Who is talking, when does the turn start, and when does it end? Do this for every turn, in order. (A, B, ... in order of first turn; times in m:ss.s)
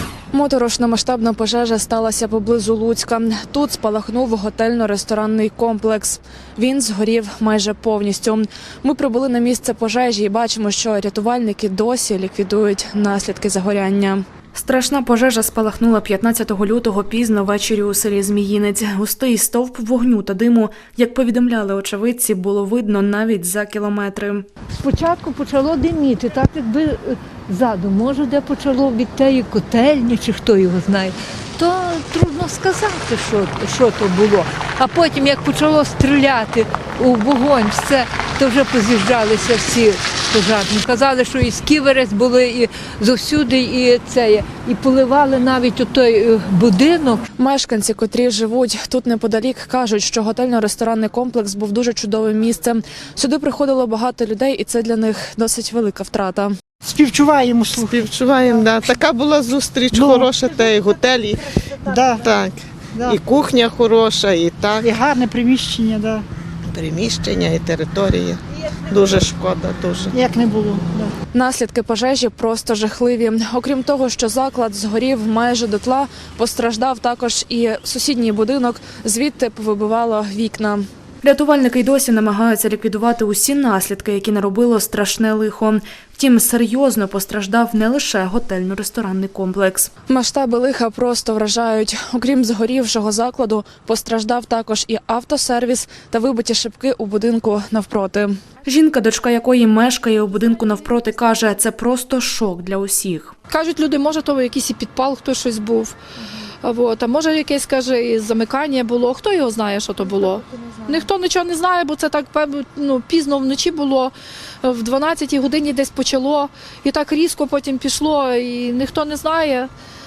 0:00.3-0:24.5 A
0:24.7-0:47.2 B
0:47.4-0:56.5 A
0:56.8-0:58.0 C
0:57.8-1:04.9 D
0:59.9-1:00.5 C
1:01.9-1:02.3 C
1:04.8-1:06.2 C
1:06.7-1:10.1 D
1:10.1-1:11.1 C
1:11.3-1:43.3 A
1:43.5-1:46.0 E
1:46.6-1:59.7 E
1:50.5-1:50.8 A